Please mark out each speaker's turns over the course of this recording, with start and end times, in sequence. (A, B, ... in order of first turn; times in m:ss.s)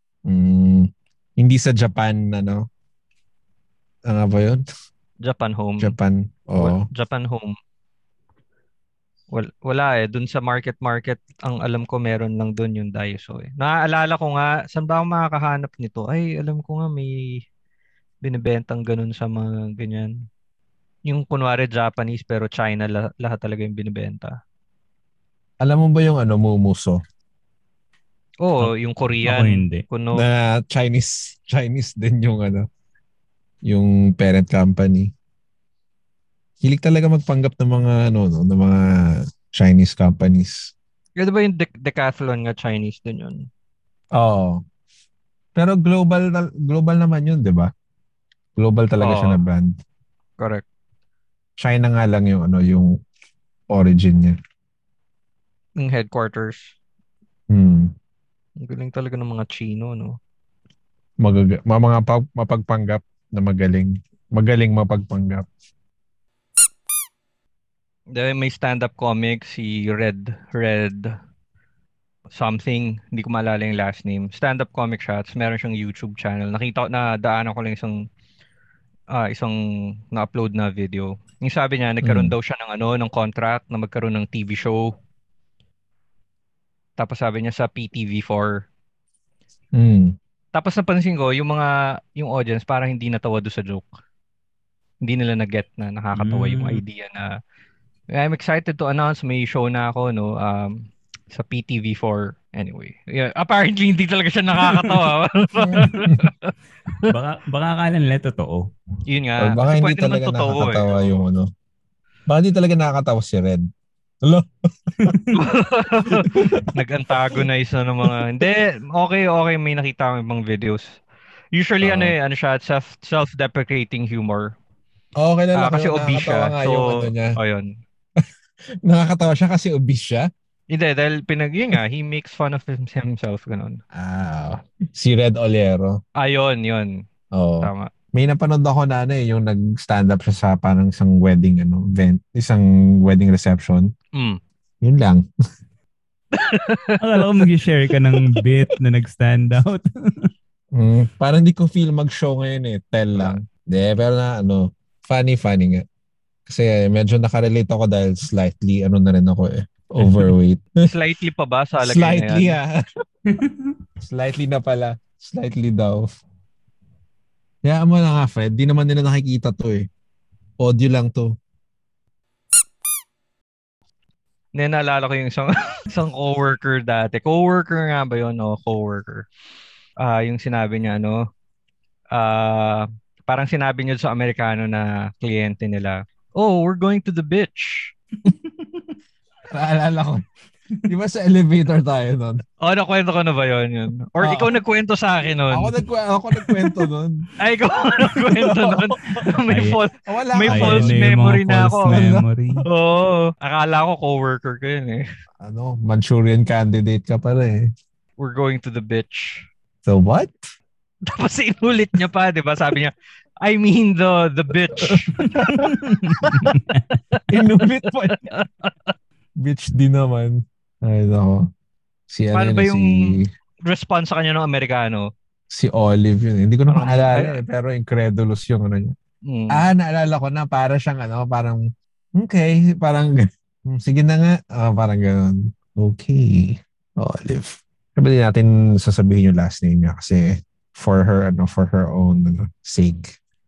0:00.2-0:02.7 A
0:04.1-0:04.6 A
0:05.2-0:05.9 B
0:05.8-0:06.8 A
0:06.6-0:07.5 B
0:09.3-0:17.4 B
0:18.2-0:20.1 B
0:21.0-0:24.4 B
0:25.6-0:27.0 A
0:28.4-0:30.2 B
0:29.2-0:29.8 C
0:30.1-0:32.7 A
0:33.7-0:35.1 A
0:36.6-0:38.8 A
0:39.5-0:40.7 A
0:41.2-0:43.5 B
0:44.1-0:44.6 A
0:45.6-0:47.7 A
0:48.6-0:49.8 A
0:49.0-0:49.4 B
0:50.4-0:50.6 B
0:51.6-0:52.9 A
0:53.7-0:54.4 A
0:55.8-0:56.7 B
0:57.5-0:57.9 A
0:58.6-1:00.2 B
1:01.2-1:05.4 A
1:08.1-1:11.1 B
1:12.3-1:18.0 B
1:19.1-1:19.6 B
1:20.1-1:24.9 B
1:22.0-1:22.3 A
1:27.0-1:28.6 B
1:29.7-1:30.1 A
1:30.5-1:33.9 B
1:35.0-1:37.3 B
1:36.2-1:36.8 C
1:38.1-1:47.1 B
1:44.6-1:44.9 C
1:45.7-1:46.0 C
1:45.7-1:46.2 A
1:47.1-1:48.6 C
1:49.1-1:51.2 B
1:49.4-1:51.5 A
1:52.3-1:53.6 A
1:54.2-1:55.2 A
1:55.0-1:55.4 C
1:55.3-2:00.9 B
1:56.2-1:57.4 A
2:01.5-2:04.5 B
2:01.8-2:02.1 A
2:05.2-2:07.3 A
2:05.6-2:07.7 B
2:08.8-2:10.3 A
2:10.7-2:13.8 B
2:13.9-2:16.0 A
2:16.2-2:16.9 B
2:17.3-2:23.9 A
2:17.6-2:17.9 B
2:24.1-2:24.4 B
2:24.8-2:25.2 A
2:26.3-2:27.2 B
2:27.0-2:29.8 C
2:30.7-2:35.8 A
2:36.5-2:40.7 A
2:40.0-2:40.3 C
2:40.8-2:42.6 B
2:41.8-2:42.7 A
2:43.3-2:43.7 C
2:44.0-2:46.0 A
2:47.6-2:49.9 A
2:50.6-2:51.3 A
2:54.5-2:59.2 B
3:00.0-3:01.2 B
3:02.1-3:07.9 B
3:09.5-3:10.2 A
3:10.9-3:12.4 A
3:12.6-3:15.7 B
3:14.2-3:14.6 A
3:15.5-3:17.2 A
3:17.4-3:22.1 B
3:18.3-3:19.3 A
3:19.5-3:19.8 C
3:20.1-3:21.0 A
3:20.5-3:22.6 C
3:21.9-3:22.2 A
3:22.6-3:25.0 B
3:25.4-3:27.7 A
3:28.2-3:29.5 B
3:29.8-3:30.4 A
3:31.1-3:35.4 B
3:34.8-3:36.5 A
3:35.2-3:37.0 C
3:37.2-3:38.9 B
3:37.3-3:38.2 A
3:39.4-3:41.5 A
3:42.1-3:43.3 A
3:42.3-3:45.1 B
3:45.5-3:48.9 A
3:46.7-3:47.3 B
3:49.2-3:49.7 B
3:49.5-3:51.6 A
3:52.2-3:53.1 A
3:53.7-4:03.1 A